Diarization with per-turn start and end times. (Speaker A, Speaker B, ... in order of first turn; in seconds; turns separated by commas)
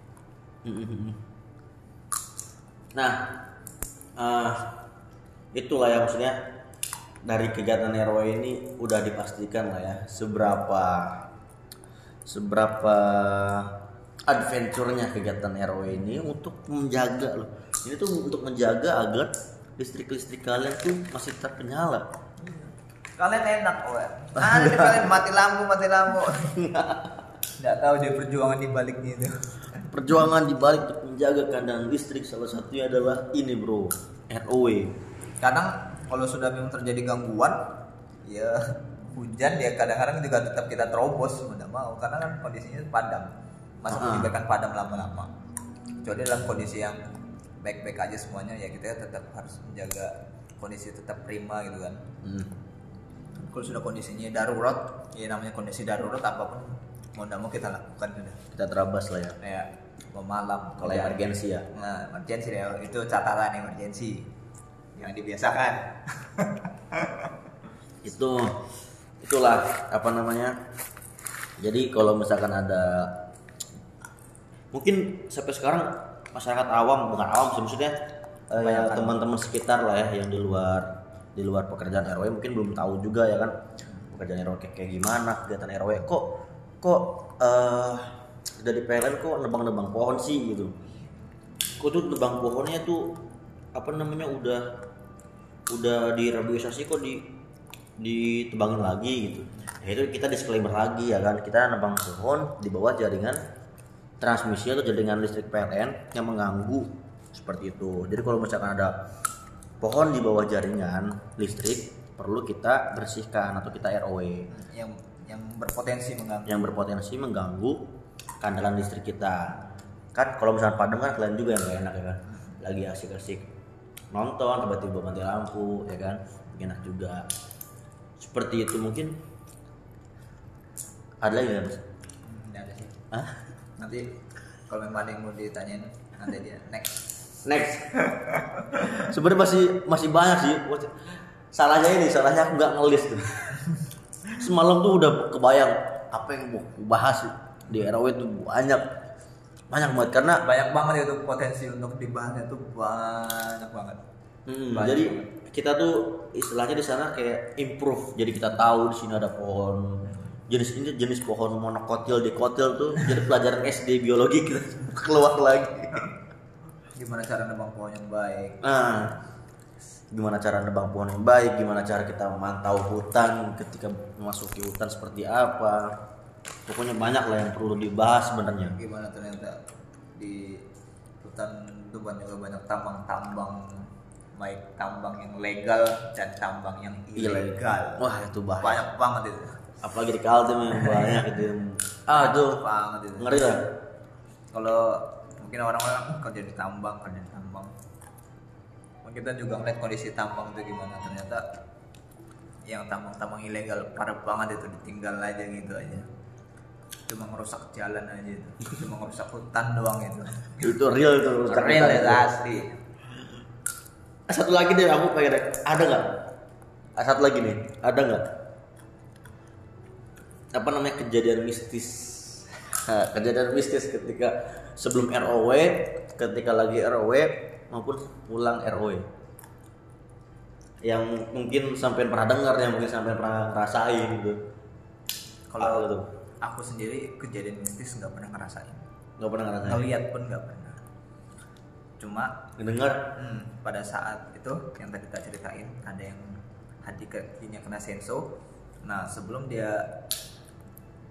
Speaker A: 0.6-1.2, Speaker A: 3.0-3.4, Speaker A: 4.2-4.8, Speaker A: 5.5-6.4, Speaker A: 7.2-11.3, Speaker A: 12.3-13.7, Speaker A: 14.3-22.1, Speaker B: 23.2-26.6, Speaker A: 24.4-25.1, Speaker A: 26.5-27.1, Speaker B: 27.6-29.4, Speaker A: 29.9-35.0, Speaker B: 35.4-37.7, Speaker B: 38.3-45.3, Speaker A: 43.9-44.3, Speaker B: 46.0-47.0, Speaker B: 47.6-52.0, Speaker A: 52.2-52.6, Speaker B: 53.4-58.4, Speaker A: 58.5-59.4, Speaker B: 59.4-64.3, Speaker A: 60.8-61.7, Speaker B: 65.0-67.3, Speaker A: 68.0-68.7, Speaker A: 69.2-70.6, Speaker A: 71.6-73.2, Speaker A: 74.7-78.0, Speaker A: 78.5-83.5, Speaker B: 78.6-79.2, Speaker A: 84.1-90.7, Speaker A: 91.8-93.2, Speaker A: 93.7-94.8, Speaker A: 95.7-97.3, Speaker A: 98.0-103.4, Speaker A: 104.2-109.0, Speaker A: 109.8-114.5, Speaker B: 114.5-116.6, Speaker A: 116.5-117.8, Speaker A: 118.4-119.6, Speaker A: 120.1-123.5, Speaker A: 124.1-127.3, Speaker A: 128.2-129.2, Speaker A: 131.2-131.8, Speaker B: 132.2-133.0, Speaker A: 133.1-133.4, Speaker B: 133.8-134.1, Speaker B: 134.7-137.0, Speaker A: 137.4-138.0, Speaker A: 138.9-141.0, Speaker A: 141.5-143.7, Speaker A: 144.3-148.9, Speaker A: 149.7-150.4, Speaker B: 150.4-154.0, Speaker A: 154.5-166.1, Speaker B: 154.7-155.3, Speaker B: 167.0-168.6, Speaker A: 168.6-169.2, Speaker A: 170.1-175.9, Speaker A: 176.7-178.8, Speaker B: 178.7-179.6, Speaker B: 180.2-180.6, Speaker B: 181.2-188.1, Speaker A: 187.2-188.8, Speaker B: 188.6-189.6, Speaker A: 189.8-192.6, Speaker B: 190.8-191.2, Speaker B: 192.1-193.4, Speaker A: 193.2-193.7, Speaker B: 194.5-197.7, Speaker B: 199.0-201.4, Speaker B: 202.7-206.1, Speaker B: 207.1-210.7, Speaker A: 210.6-212.3, Speaker B: 211.5-212.7, Speaker A: 214.3-216.2, Speaker A: 217.0-218.3, Speaker A: 220.5-229.1, Speaker A: 230.8-234.4, Speaker B: 235.5-238.8, Speaker A: 235.6-236.1, Speaker A: 239.2-239.8, Speaker B: 239.6-240.8, Speaker B: 242.0-242.4, Speaker A: 242.6-243.1, Speaker B: 243.2-248.3, Speaker B: 248.8-249.9